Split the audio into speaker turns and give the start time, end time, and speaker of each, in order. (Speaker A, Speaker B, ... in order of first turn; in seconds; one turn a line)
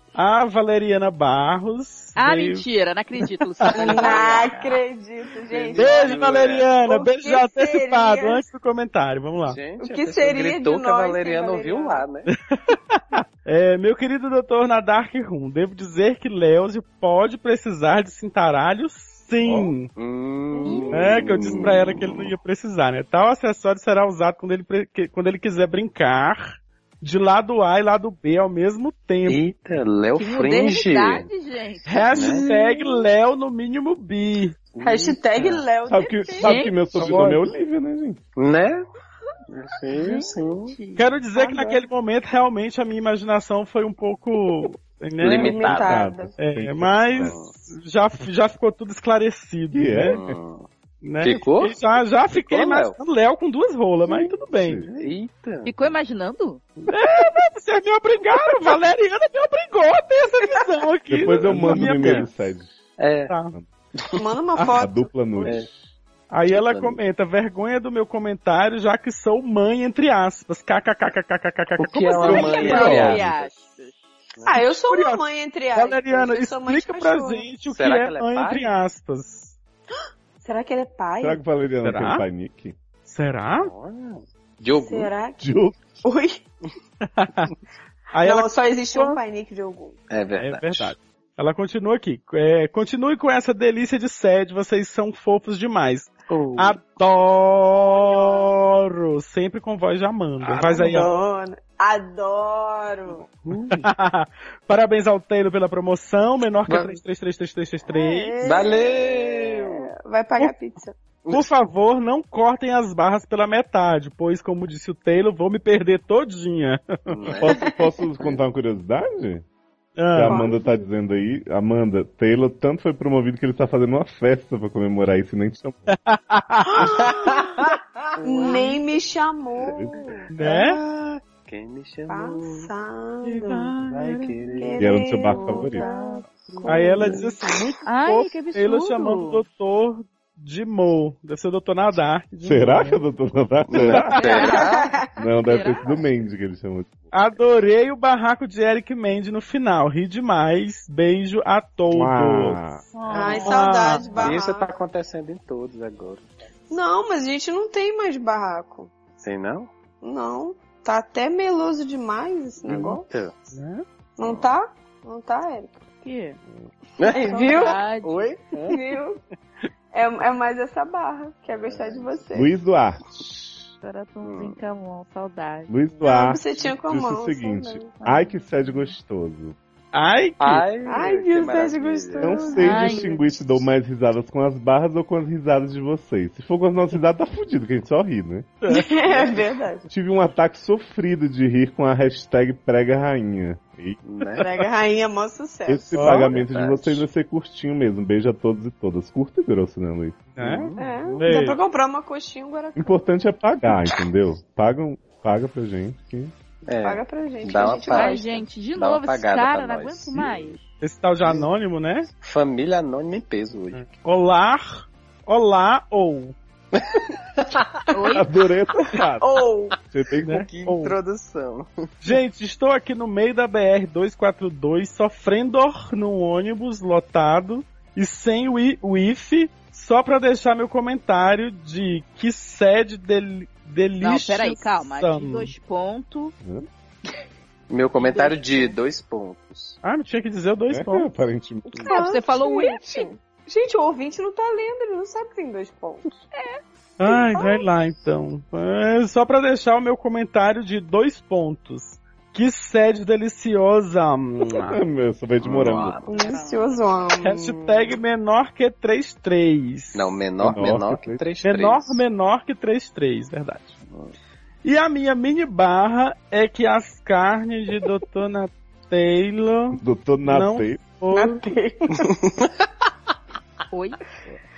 Speaker A: 0.1-2.6
Speaker B: 2.1-4.8
Speaker A: 3.6-4.1
Speaker C: 3.8-6.3
Speaker D: 5.5-6.8
Speaker A: 5.8-9.6
Speaker C: 6.8-8.4
Speaker D: 9.4-12.3
Speaker C: 9.8-12.1
Speaker A: 12.3-19.9
Speaker E: 19.4-19.7
Speaker D: 19.9-22.3
Speaker C: 20.5-20.9
Speaker A: 20.9-29.4
Speaker D: 29.2-31.3
Speaker B: 30.2-32.1
Speaker A: 31.9-34.6
Speaker D: 32.1-32.5
Speaker C: 32.2-33.1
Speaker D: 34.7-35.6
Speaker C: 34.8-36.7
Speaker E: 35.9-38.2
Speaker B: 36.4-36.7
Speaker D: 36.9-37.5
Speaker D: 38.4-38.8
Speaker D: 39.5-40.8
Speaker B: 40.0-41.1
Speaker A: 41.0-45.6
Speaker C: 41.4-41.8
Speaker D: 45.2-46.0
Speaker C: 45.2-46.3
Speaker E: 45.6-47.3
Speaker A: 46.4-50.2
Speaker D: 47.2-47.5
Speaker E: 49.7-50.4
Speaker D: 50.1-50.7
Speaker A: 51.0-54.9
Speaker D: 51.2-51.8
Speaker D: 52.3-53.0
Speaker D: 54.1-55.9
Speaker E: 54.5-54.9
Speaker B: 55.6-56.6
Speaker A: 56.9-62.3
Speaker E: 61.1-62.8
Speaker D: 61.5-62.3
Speaker D: 63.0-63.3
Speaker A: 63.3-63.5
Speaker C: 64.2-65.1
Speaker A: 64.5-64.8
Speaker E: 64.7-65.7
Speaker A: 66.3-73.2
Speaker D: 66.5-67.0
Speaker D: 71.8-73.4
Speaker B: 72.2-74.0
Speaker C: 72.3-73.4
Speaker D: 74.4-74.7
Speaker C: 74.5-77.5
Speaker A: 74.8-75.2
Speaker A: 75.7-79.5
Speaker D: 77.7-78.7
Speaker C: 79.9-81.4
Speaker E: 81.2-82.8
Speaker A: 81.8-82.2
Speaker A: 83.1-83.7
Speaker D: 83.5-85.1
Speaker C: 84.7-85.4
Speaker E: 85.4-85.8
Speaker C: 86.0-86.4
Speaker A: 87.1-87.5
Speaker A: 88.1-89.2
Speaker C: 88.2-90.0
Speaker D: 90.1-91.0
Speaker A: 90.4-101.1
Speaker D: 96.3-96.8
Speaker C: 97.8-98.5
Speaker C: 100.4-103.3
Speaker D: 103.4-103.9
Speaker A: 103.7-108.4
Speaker D: 106.7-107.0
Speaker C: 107.9-110.9
Speaker D: 108.4-109.9
Speaker D: 111.2-111.5
Speaker A: 111.3-117.2
Speaker D: 117.1-117.7
Speaker C: 117.4-117.9
Speaker E: 117.6-119.4
Speaker A: 120.0-120.5
Speaker E: 120.1-125.9
Speaker C: 120.2-120.8
Speaker A: 125.9-126.9
Speaker C: 126.7-127.7
Speaker D: 126.8-127.4
Speaker D: 128.1-128.7
Speaker C: 128.2-131.0
Speaker B: 128.2-128.7
Speaker A: 130.3-130.8
Speaker D: 131.0-132.7
Speaker C: 132.1-133.8
Speaker A: 133.2-134.4
Speaker D: 133.8-134.8
Speaker C: 134.6-137.7
Speaker E: 134.8-135.8
Speaker B: 135.2-137.2
Speaker A: 136.7-143.0
Speaker B: 137.8-139.4
Speaker E: 142.4-144.2
Speaker D: 143.7-144.9
Speaker B: 144.1-144.7
Speaker C: 144.3-145.2
Speaker E: 145.2-147.2
Speaker B: 145.4-145.9
Speaker A: 147.1-154.3
Speaker E: 151.9-152.8
Speaker B: 152.9-154.0
Speaker C: 153.1-154.7
Speaker D: 154.2-156.3
Speaker C: 156.7-158.9
Speaker D: 159.2-159.7
Speaker C: 160.0-163.1
Speaker D: 162.6-163.4
Speaker A: 163.5-163.8
Speaker C: 164.2-165.7
Speaker D: 164.2-164.5
Speaker B: 166.0-166.4
Speaker D: 167.0-168.8
Speaker C: 167.0-167.8
Speaker B: 167.1-168.3
Speaker C: 168.7-169.2
Speaker C: 169.9-172.5
Speaker D: 171.5-172.2
Speaker E: 172.3-173.6
Speaker B: 173.8-175.7
Speaker D: 174.2-174.6
Speaker E: 175.7-179.6
Speaker C: 176.0-177.9
Speaker A: 179.9-180.7
Speaker D: 180.4-182.6
Speaker C: 180.8-183.2
Speaker E: 182.2-188.5
Speaker B: 182.5-183.1
Speaker A: 188.6-188.9
Speaker C: 188.7-189.9
Speaker E: 189.9-194.0
Speaker D: 194.0-194.5
Speaker C: 194.4-196.3
Speaker E: 195.7-200.3
Speaker A: 196.0-196.3
Speaker D: 196.3-197.0
Speaker A: 200.3-201.6
Speaker D: 200.4-201.2
Speaker C: 200.8-202.9
Speaker E: 202.8-206.3
Speaker D: 206.7-210.5
Speaker C: 206.8-208.4
Speaker B: 207.9-210.6
Speaker A: 210.8-212.1
Speaker D: 212.2-213.8
Speaker A: 213.7-216.3
Speaker D: 216.7-217.7
Speaker B: 217.9-218.3
Speaker E: 218.1-219.3
Speaker C: 219.2-219.8
Speaker E: 219.9-220.5
Speaker A: 220.2-221.0
Speaker D: 220.4-221.7
Speaker A: 222.0-235.5
Speaker B: 234.0-236.3
Speaker D: 237.7-239.8
Speaker B: 237.9-238.8
Speaker A: 239.8-241.1
Speaker E: 240.7-241.9
Speaker C: 241.7-246.0
Speaker B: 241.8-243.1
Speaker B: 246.3-246.6
Speaker A: 247.0-254.8
Speaker C: 247.1-247.7
Speaker E: 254.5-256.0
Speaker D: 255.4-256.2
Speaker C: 256.1-257.9
Speaker B: 256.1-256.9
Speaker A: 257.2-260.1
Speaker D: 259.9-262.0
Speaker E: 260.4-261.2
Speaker A: 261.4-263.8
Speaker A: 264.6-271.5
Speaker E: 269.8-270.8
Speaker C: 271.1-272.3
Speaker D: 272.1-272.6
Speaker B: 273.7-274.0